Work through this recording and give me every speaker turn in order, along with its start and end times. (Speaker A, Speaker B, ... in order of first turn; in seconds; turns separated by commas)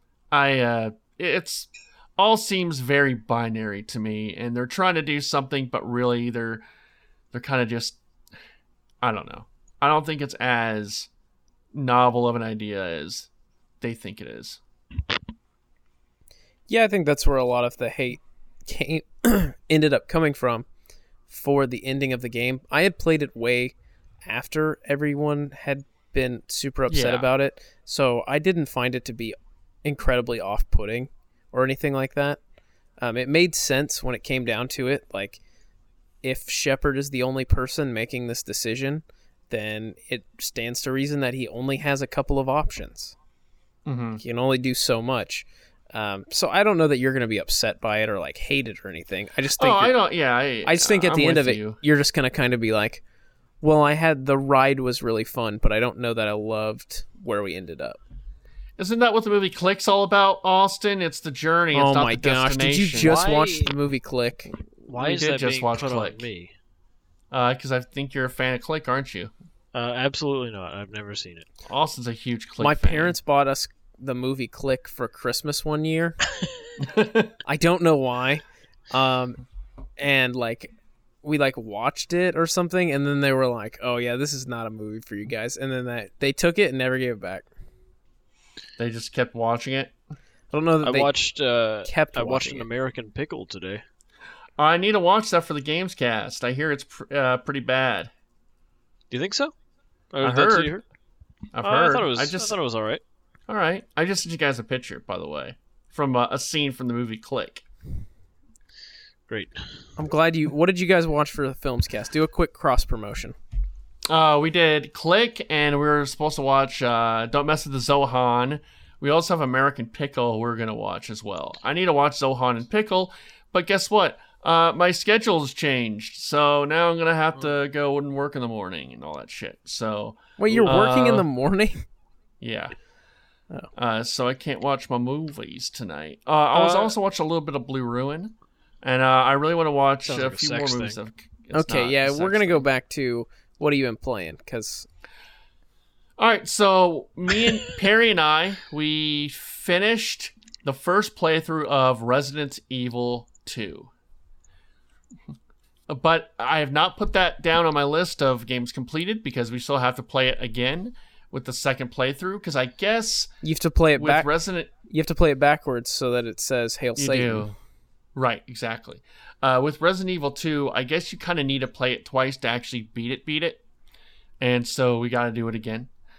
Speaker A: 0.3-6.6, Speaker A: 7.3-8.0, Speaker A: 9.0-11.1, Speaker A: 11.7-13.3, Speaker A: 13.8-14.6, Speaker B: 16.7-20.6, Speaker B: 21.3-32.4, Speaker A: 26.9-27.3, Speaker B: 33.0-35.4, Speaker B: 36.2-43.1, Speaker A: 43.9-44.2, Speaker B: 44.2-50.0, Speaker A: 49.6-51.8, Speaker B: 50.6-53.0, Speaker B: 53.6-58.0, Speaker A: 58.8-63.2, Speaker B: 61.7-64.5, Speaker C: 63.0-63.7, Speaker A: 64.8-66.3, Speaker C: 64.9-66.5, Speaker A: 67.3-69.3, Speaker C: 69.7-71.5, Speaker A: 71.6-73.2, Speaker B: 72.6-76.2, Speaker A: 76.8-77.3, Speaker B: 77.4-79.4, Speaker B: 80.0-80.7, Speaker B: 81.2-87.5, Speaker A: 88.8-89.9, Speaker B: 90.5-91.1, Speaker C: 90.8-93.8, Speaker B: 91.8-92.7, Speaker A: 94.6-98.1, Speaker C: 99.1-99.5, Speaker C: 100.1-100.8, Speaker A: 100.2-100.7, Speaker A: 101.5-102.6, Speaker C: 101.6-103.0, Speaker A: 103.5-107.6, Speaker C: 109.3-109.6, Speaker B: 110.0-113.3, Speaker A: 114.1-131.3, Speaker B: 130.4-131.8, Speaker A: 132.4-132.7, Speaker A: 133.7-142.7, Speaker C: 140.1-141.0, Speaker B: 141.5-144.9, Speaker A: 146.2-153.9, Speaker A: 155.9-163.3, Speaker B: 163.4-164.3, Speaker A: 163.9-164.7, Speaker B: 164.8-167.5, Speaker A: 167.0-167.6, Speaker A: 168.1-173.6, Speaker A: 174.4-175.9